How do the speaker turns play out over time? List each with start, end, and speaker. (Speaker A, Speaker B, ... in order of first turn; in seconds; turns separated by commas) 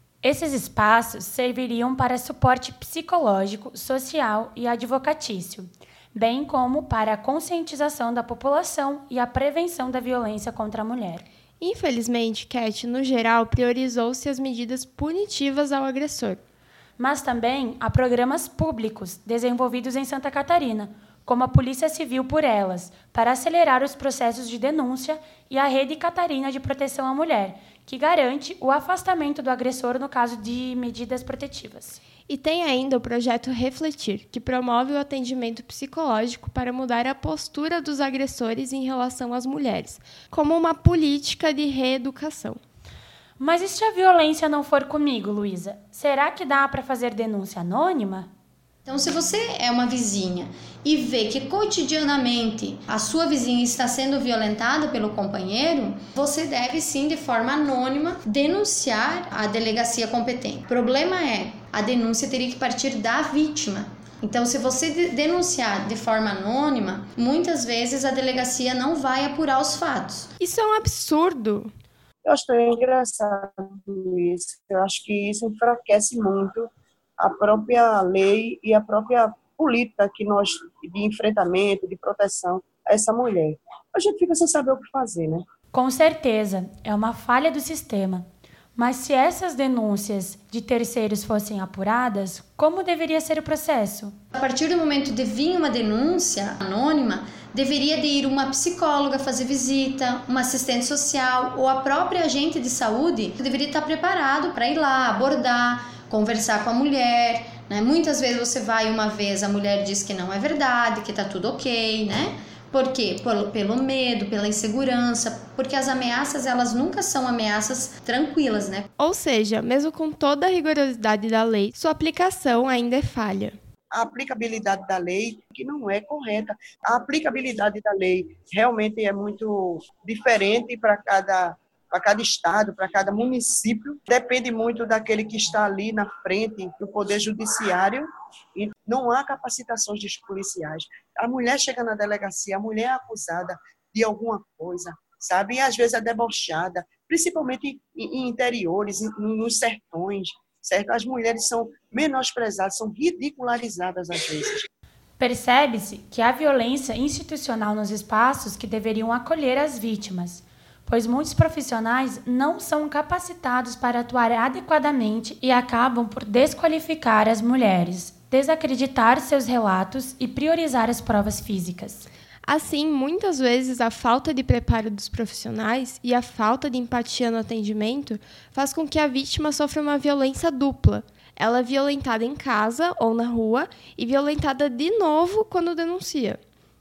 Speaker A: 0.2-11.2, Speaker B: 11.6-16.4, Speaker A: 17.0-32.0, Speaker B: 32.3-42.6, Speaker A: 43.4-48.3, Speaker C: 48.9-70.3, Speaker B: 70.4-71.7, Speaker D: 72.2-85.5, Speaker A: 85.7-94.1, Speaker C: 94.3-118.9, Speaker B: 119.0-123.6, Speaker D: 123.9-154.7, Speaker A: 155.2-172.1, Speaker B: 172.5-186.4